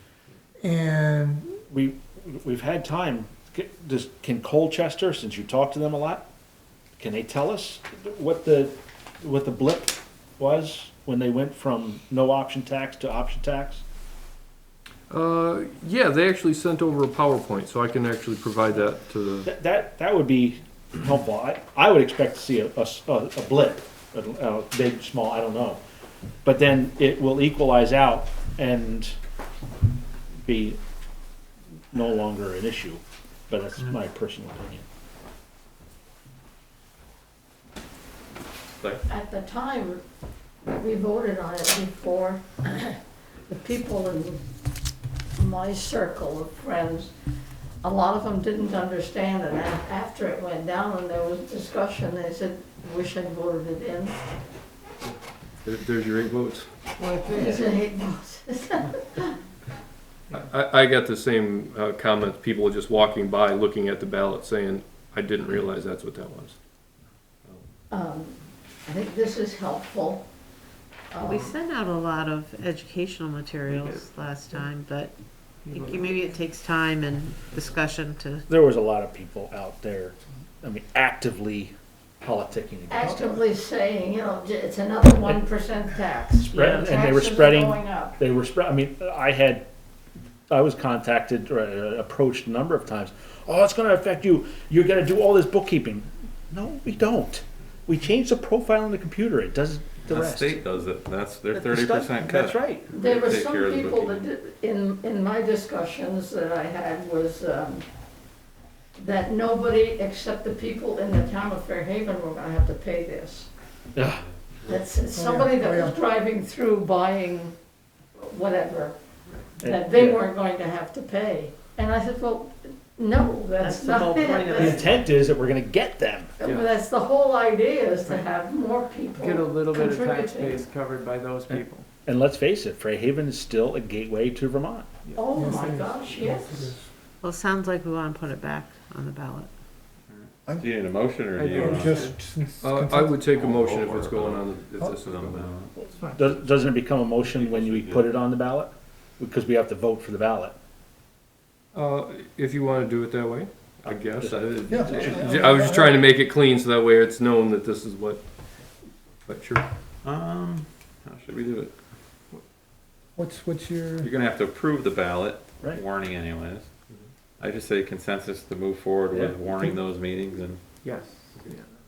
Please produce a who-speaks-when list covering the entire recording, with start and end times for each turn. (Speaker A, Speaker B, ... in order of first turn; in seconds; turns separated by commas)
Speaker A: 0.6-1.6, Speaker B: 1.7-6.2, Speaker B: 7.0-13.8, Speaker C: 15.1-19.5, Speaker B: 19.4-25.8, Speaker B: 26.4-29.1, Speaker B: 30.4-30.8, Speaker B: 31.9-34.8, Speaker D: 39.1-40.0, Speaker D: 40.6-44.4, Speaker D: 45.4-47.1, Speaker D: 47.8-54.2, Speaker C: 55.6-56.7, Speaker E: 57.0-57.6, Speaker D: 57.3-59.4, Speaker B: 57.4-57.6, Speaker C: 60.3-66.6, Speaker D: 67.9-70.2, Speaker D: 71.1-71.5, Speaker F: 71.3-75.1, Speaker E: 73.7-74.6, Speaker E: 75.7-76.3, Speaker F: 75.7-78.4, Speaker B: 78.5-83.2, Speaker D: 82.9-88.2, Speaker B: 86.4-89.6, Speaker F: 86.5-86.9, Speaker B: 90.5-100.6, Speaker G: 100.0-104.3, Speaker B: 101.5-102.9, Speaker D: 102.9-107.8, Speaker D: 109.0-113.5, Speaker B: 113.9-114.2, Speaker D: 114.7-117.5, Speaker A: 115.1-116.0, Speaker D: 118.2-118.9, Speaker B: 119.6-120.2, Speaker D: 119.6-124.8, Speaker F: 123.6-125.0, Speaker B: 124.5-126.3, Speaker D: 126.4-130.6, Speaker E: 129.1-131.8, Speaker B: 132.1-134.9, Speaker D: 135.1-136.7, Speaker A: 135.3-136.9, Speaker F: 137.2-139.5, Speaker G: 140.1-142.1, Speaker E: 141.3-142.2, Speaker A: 141.5-143.2, Speaker C: 142.6-145.6, Speaker G: 143.3-145.7, Speaker B: 145.8-150.5, Speaker G: 147.3-148.2, Speaker C: 151.7-158.2, Speaker B: 154.2-155.4, Speaker A: 154.7-156.1, Speaker C: 159.3-159.7, Speaker G: 160.0-161.7, Speaker A: 163.2-164.1, Speaker G: 164.0-166.7, Speaker G: 167.4-170.6, Speaker B: 169.1-169.8, Speaker E: 170.8-171.7